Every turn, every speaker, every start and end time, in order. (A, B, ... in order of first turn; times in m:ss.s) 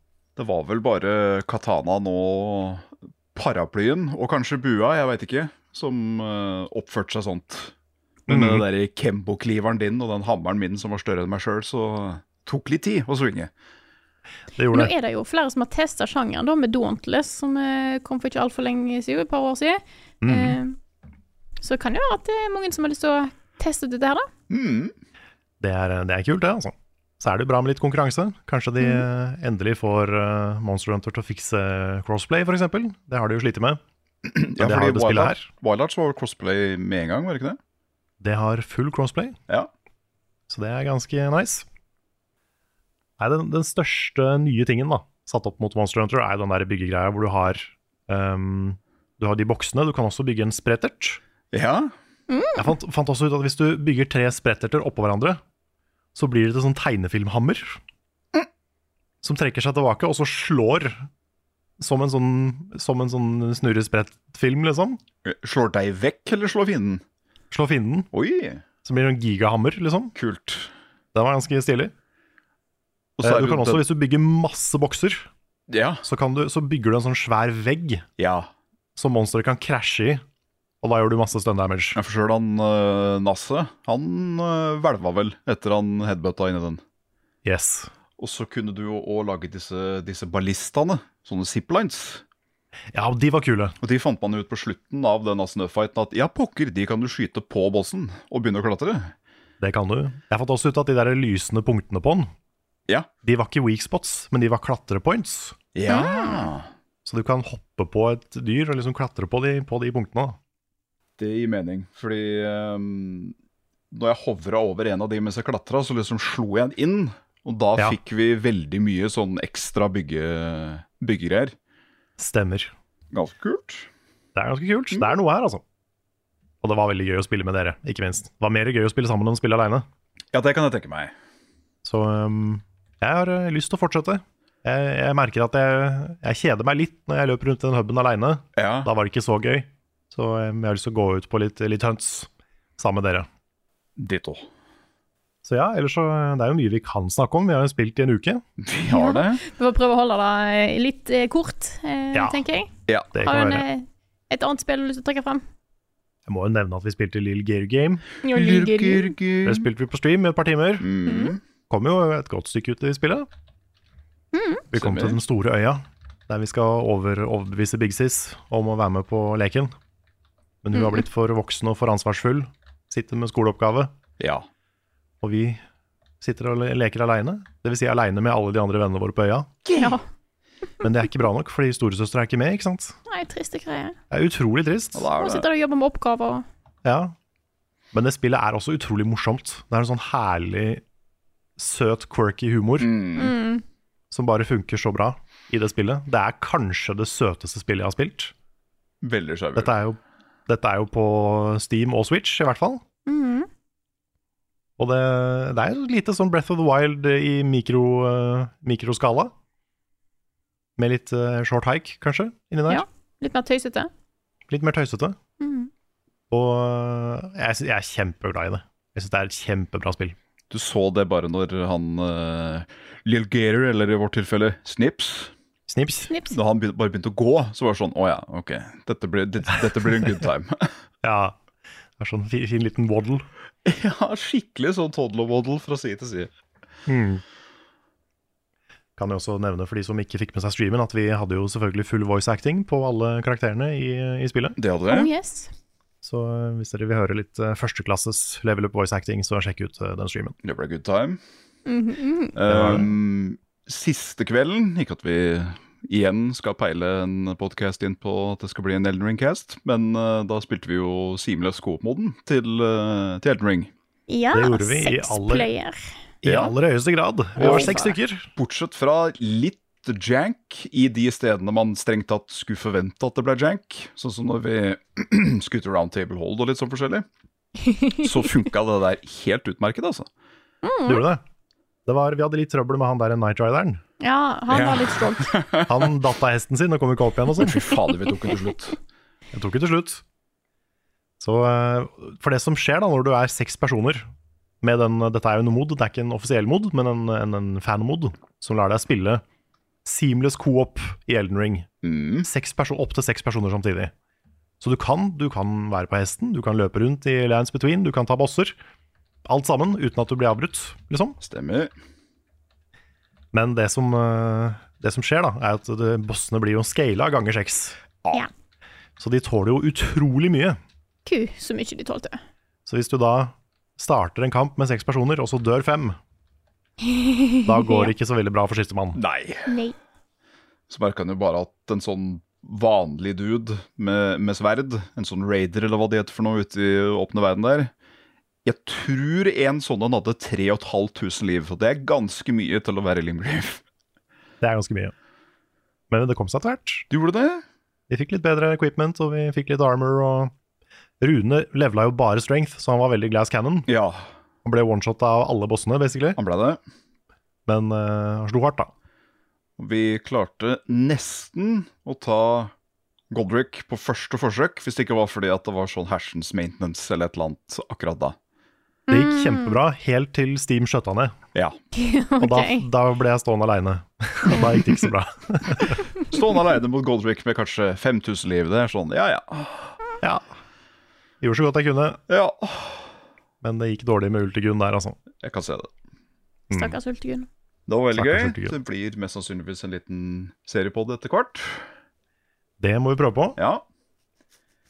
0:00.4-0:07.7 A
0:08.3-0:13.5 A
0:08.3-0:08.6 B
0:14.6-0:14.9 B
0:14.7-0:20.8 C
0:20.2-0:20.6 B
0:21.6-0:24.3 C
0:24.5-0:24.9 A
0:25.6-0:33.8 B
0:34.2-0:37.6 A
0:34.6-0:35.5 B
0:38.2-0:39.4 B
0:40.5-0:41.6 B
0:43.2-0:51.2 B
0:51.5-0:51.9 A
0:52.3-0:52.6 C
0:52.6-0:55.4 B
0:56.1-0:57.8 B
0:59.2-1:01.1 B
1:01.8-1:05.0 B
1:05.2-1:07.0 A
1:07.5-1:08.1 B
1:08.1-1:08.6 A
1:08.8-1:10.1 B
1:10.1-1:10.7 A
1:11.1-1:11.9 B
1:13.2-1:13.8 A
1:13.2-1:15.3 B
1:15.7-1:16.0 A
1:16.0-1:18.0 B
1:18.2-1:18.5 A
1:19.0-1:20.2 B
1:20.8-1:22.0 B
1:21.9-1:26.8 A
1:27.4-1:27.9 B
1:28.2-1:32.2 A
1:32.9-1:33.7 B
1:33.8-1:39.1 A
1:39.6-1:42.3 B
1:43.2-1:45.5 B
1:45.7-1:46.7 A
1:45.9-1:46.5 C
1:47.0-1:50.4 B
1:51.2-1:53.3 A
1:53.9-2:01.5 A
2:02.2-2:02.7 B
2:03.1-2:03.9 A
2:04.3-2:05.6 B
2:06.6-2:09.8 B
2:10.3-2:11.1 A
2:11.8-2:23.3 B
2:18.6-2:18.9 A
2:24.0-2:24.4 A
2:25.4-2:28.4 B
2:28.6-2:29.4 A
2:28.8-2:35.4 C
2:32.1-2:32.4 B
2:33.1-2:33.6 B
2:36.3-2:38.0 B
2:38.2-2:39.1 C
2:38.3-2:39.6 A
2:39.4-2:40.9 B
2:40.8-2:41.4 A
2:41.0-2:41.3 C
2:41.7-2:43.3 B
2:44.3-2:44.7 C
2:44.7-2:49.7 B
2:44.8-2:45.2 A
2:50.6-2:53.9 B
2:50.8-2:51.0 C
2:54.2-2:54.4 A
2:55.2-2:55.6 B
2:56.2-2:59.5 B
2:59.6-3:00.0 A
3:00.8-3:03.0 B
3:03.1-3:04.0 C
3:04.1-3:05.0 B
3:04.9-3:05.5 A
3:05.2-3:06.4 C
3:06.8-3:07.1 B
3:07.9-3:10.8 B
3:11.6-3:12.9 B
3:12.8-3:13.3 A
3:13.2-3:13.6 C
3:14.1-3:18.3 B
3:19.0-3:19.7 A
3:19.6-3:22.8 B
3:23.1-3:23.5 C
3:24.8-3:29.3 B
3:30.8-3:32.8 B
3:32.7-3:33.9 C
3:34.5-3:35.2 B
3:35.4-3:35.7 C
3:36.3-3:40.2 B
3:40.5-3:45.3 A
3:45.7-3:46.1 B
3:46.1-3:46.4 C
3:46.3-3:50.7 A
3:51.0-3:51.4 B
3:52.0-3:53.3 B
3:53.6-3:56.3 A
3:56.9-3:57.2 B
3:59.0-4:04.6 B
4:04.6-4:05.1 A
4:04.9-4:05.5 C
4:06.0-4:10.4 B
4:10.4-4:11.2 A
4:11.6-4:12.3 C
4:12.3-4:23.7 A
4:12.5-4:12.9 B
4:24.1-4:25.9 C
4:24.3-4:25.5 B
4:26.2-4:28.3 B
4:26.2-4:26.5 A
4:27.4-4:27.8 A
4:27.4-4:27.9 C
4:28.3-4:37.1 A
4:37.6-4:38.1 C
4:38.0-4:40.1 A
4:40.6-4:41.0 C
4:40.8-4:41.2 B
4:41.8-4:43.8 B
4:44.0-4:45.4 C
4:44.5-4:45.7 A
4:45.7-4:47.6 B
4:47.5-4:48.8 A
4:49.3-4:50.0 B
4:51.2-4:54.1 B
4:54.6-4:59.2 B
4:59.8-5:01.7 B
5:01.8-5:02.3 A
5:02.2-5:03.9 B
5:04.6-5:08.6 B
5:09.2-5:11.2 B
5:11.2-5:11.7 A
5:13.3-5:17.8 B
5:19.0-5:20.6 B
5:21.0-5:22.2 C
5:22.7-5:26.0 B
5:26.8-5:27.9 C
5:27.4-5:29.0 B
5:28.9-5:29.5 A
5:29.5-5:29.7 C
5:30.7-5:37.7 A
5:38.4-5:43.6 A
5:44.4-5:44.9 B
5:45.9-5:46.9 B
5:46.9-5:47.4 A
5:47.9-5:50.3 B
5:51.0-5:53.7 B
5:53.7-5:54.0 A
5:54.4-5:56.2 B
5:56.2-5:56.6 A
5:57.5-5:58.7 B
5:59.6-6:02.5 A
6:03.1-6:08.2 A
6:08.9-6:09.5 C
6:08.9-6:11.1 B
6:11.7-6:12.6 C
6:12.2-6:15.8 B
6:16.1-6:19.8 A
6:20.0-6:20.3 B
6:21.2-6:22.0 B
6:22.1-6:22.9 A
6:23.4-6:25.0 B
6:25.2-6:25.7 A
6:26.5-6:26.8 B
6:26.5-6:27.3 C
6:27.7-6:31.6 A
6:27.9-6:28.5 B
6:32.6-6:33.4 B
6:33.4-6:33.6 A